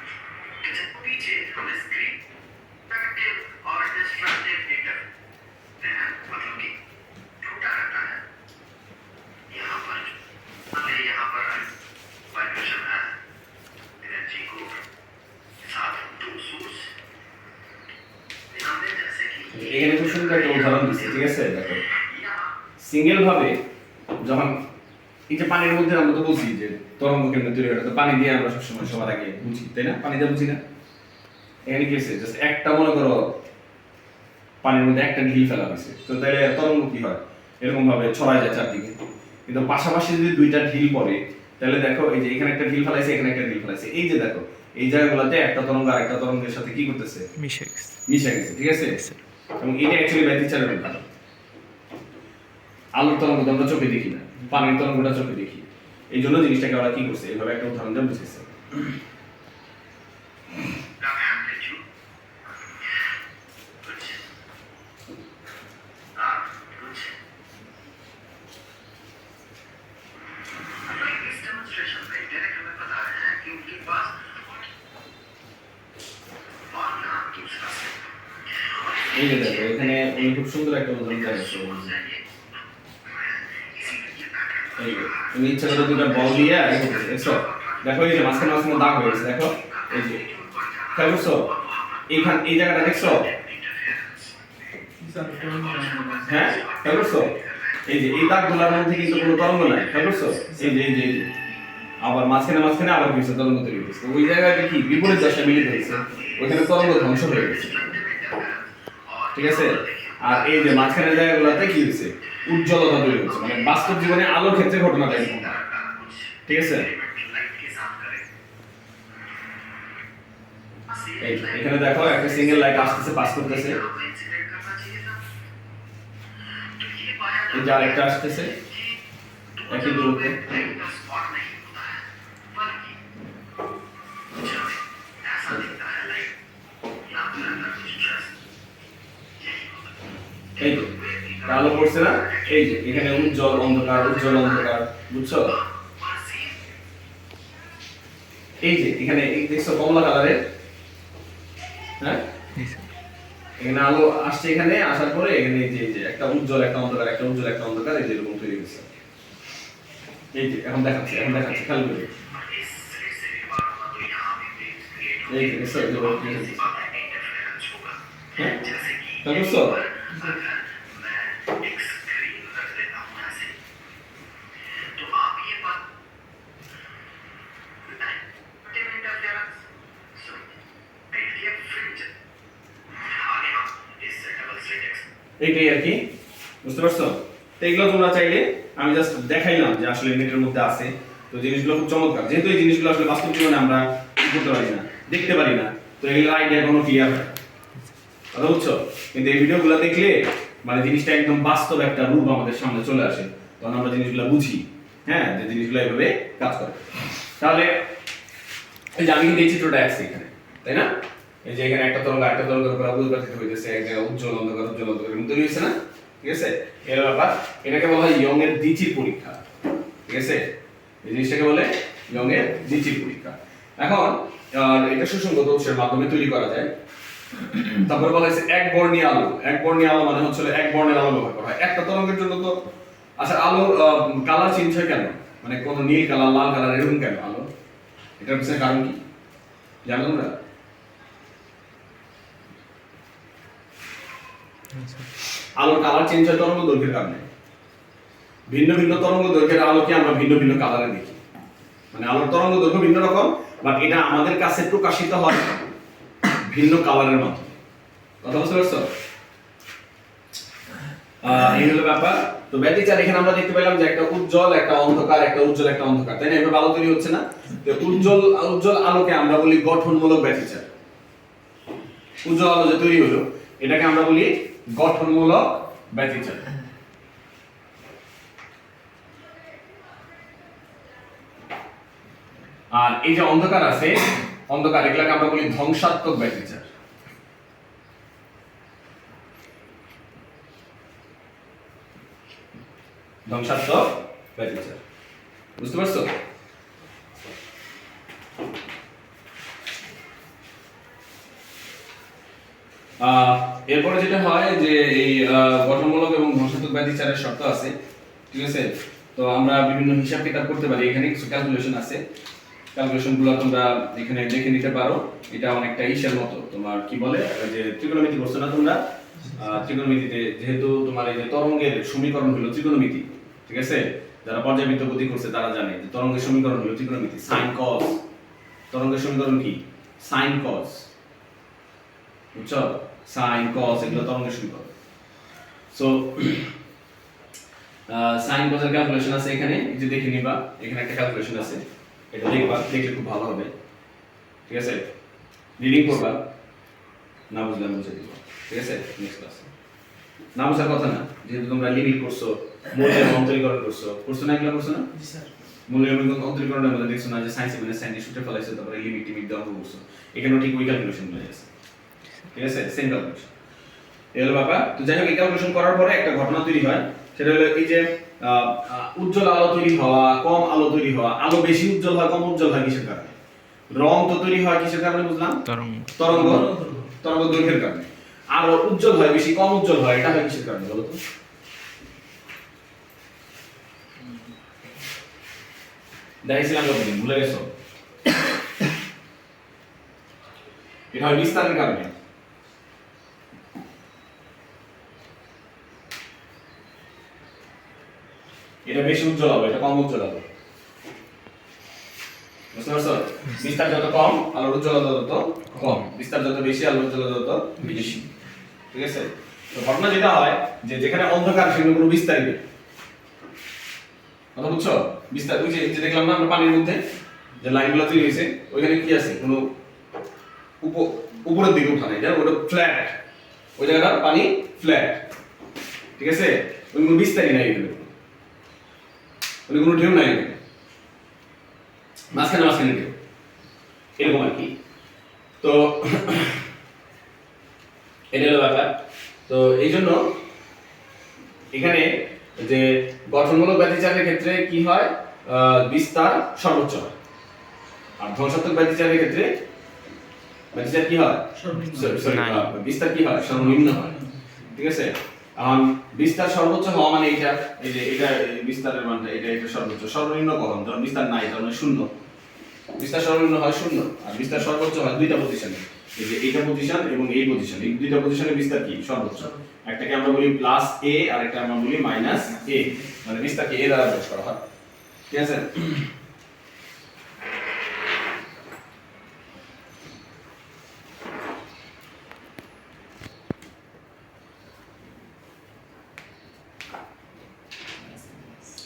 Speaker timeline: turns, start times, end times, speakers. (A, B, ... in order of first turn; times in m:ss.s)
0:00.6-0:02.2 A
0:02.9-0:05.0 A
0:05.8-0:06.8 A
0:07.4-0:08.2 A
0:09.5-0:10.2 A
0:10.7-0:11.8 A
0:12.3-0:13.2 A
0:14.0-0:14.8 A
0:15.6-0:16.9 A
0:18.5-0:22.5 A
0:19.5-0:21.8 B
0:22.8-0:23.6 B
0:24.2-0:24.6 B
0:25.3-0:30.6 B
0:31.7-0:33.3 B
0:34.6-0:39.0 B
0:39.5-0:47.2 B
0:47.4-0:48.0 C
0:48.1-0:49.0 B
0:49.6-0:51.0 B
0:53.0-0:58.5 B
1:01.0-1:01.8 A
1:03.8-1:04.2 A
1:06.2-1:07.2 A
1:10.9-1:14.6 A
1:16.7-1:18.1 A
1:18.7-1:20.4 A
1:19.1-1:21.9 B
1:21.1-1:22.2 A
1:23.1-1:34.4 A
1:24.8-1:30.2 B
1:30.9-1:31.5 B
1:32.1-1:33.3 B
1:35.0-1:36.3 C
1:35.2-1:40.5 A
1:36.2-1:37.3 B
1:37.8-1:41.3 B
1:42.0-1:47.8 B
1:44.9-1:51.8 A
1:49.4-1:55.6 B
1:53.1-1:58.3 A
1:56.5-1:56.9 B
2:00.9-2:05.2 A
2:01.2-2:03.8 B
2:06.8-2:09.0 A
2:07.5-2:08.6 B
2:09.6-2:13.0 A
2:09.7-2:10.4 B
2:14.3-2:16.3 A
2:17.0-2:18.3 A
2:19.4-2:20.0 A
2:20.6-2:24.8 A
2:20.6-2:20.9 B
2:21.4-2:25.5 B
2:25.5-2:26.6 A
2:28.6-2:30.4 B
2:32.6-2:32.9 C
2:33.6-2:38.9 B
2:40.3-2:42.1 B
2:41.2-2:41.5 A
2:42.3-2:53.6 A
2:45.3-2:46.6 B
2:49.2-2:49.8 B
2:54.9-2:55.8 A
2:57.8-2:59.6 A
3:00.2-3:00.4 A
3:01.1-3:02.1 A
3:03.0-3:05.1 A
3:05.4-3:06.1 B
3:06.6-3:17.3 B
3:18.3-3:26.8 B
3:27.4-3:27.8 B
3:29.0-3:30.9 B
3:31.4-3:39.4 B
3:40.1-3:40.4 B
3:41.0-3:46.7 B
3:47.6-3:52.6 B
3:53.2-3:57.5 B
3:58.2-3:59.0 B
3:59.9-4:00.3 B
4:04.8-4:05.1 C
4:05.6-4:07.2 B
4:08.5-4:11.2 B
4:11.9-4:15.5 B
4:16.3-4:17.6 B
4:18.2-4:18.9 B
4:21.2-4:30.7 B
4:32.2-4:36.5 B
4:42.7-4:46.7 B
4:53.3-4:54.8 B
4:55.6-4:56.1 B
5:03.0-5:07.7 B
5:08.3-5:12.0 B
5:12.8-5:18.8 B
5:19.3-5:28.0 B
5:28.7-5:30.9 B
5:32.4-5:34.7 B
5:35.7-5:36.5 B
5:37.9-5:43.5 B
5:44.5-5:44.8 B
5:45.6-5:46.2 B
5:47.3-5:49.5 B
5:50.4-5:54.9 B
5:55.0-5:55.2 C
5:55.7-6:01.5 B
6:02.3-6:03.3 B
6:04.2-6:13.2 B
6:13.7-6:15.4 B
6:15.5-6:16.9 C
6:16.0-6:21.0 B
6:26.2-6:27.5 B
6:30.9-6:31.9 B
6:38.6-6:40.2 B
6:42.5-6:48.0 B
6:47.6-6:48.1 C
6:48.7-6:52.4 B
6:54.4-6:56.8 B
6:57.4-6:59.5 B
7:00.6-7:03.0 B
7:03.6-7:05.0 B
7:06.0-7:07.9 B
7:09.5-7:10.4 B
7:12.1-7:12.9 B
7:14.0-7:14.5 B
7:15.4-7:16.4 B
7:18.1-7:20.0 B
7:21.5-7:26.9 B
7:28.0-7:29.3 B
7:30.5-7:33.9 B
7:31.4-7:32.5 C
7:33.3-7:34.3 C
7:34.5-7:41.9 B
7:42.8-7:54.4 B
7:55.1-7:55.8 B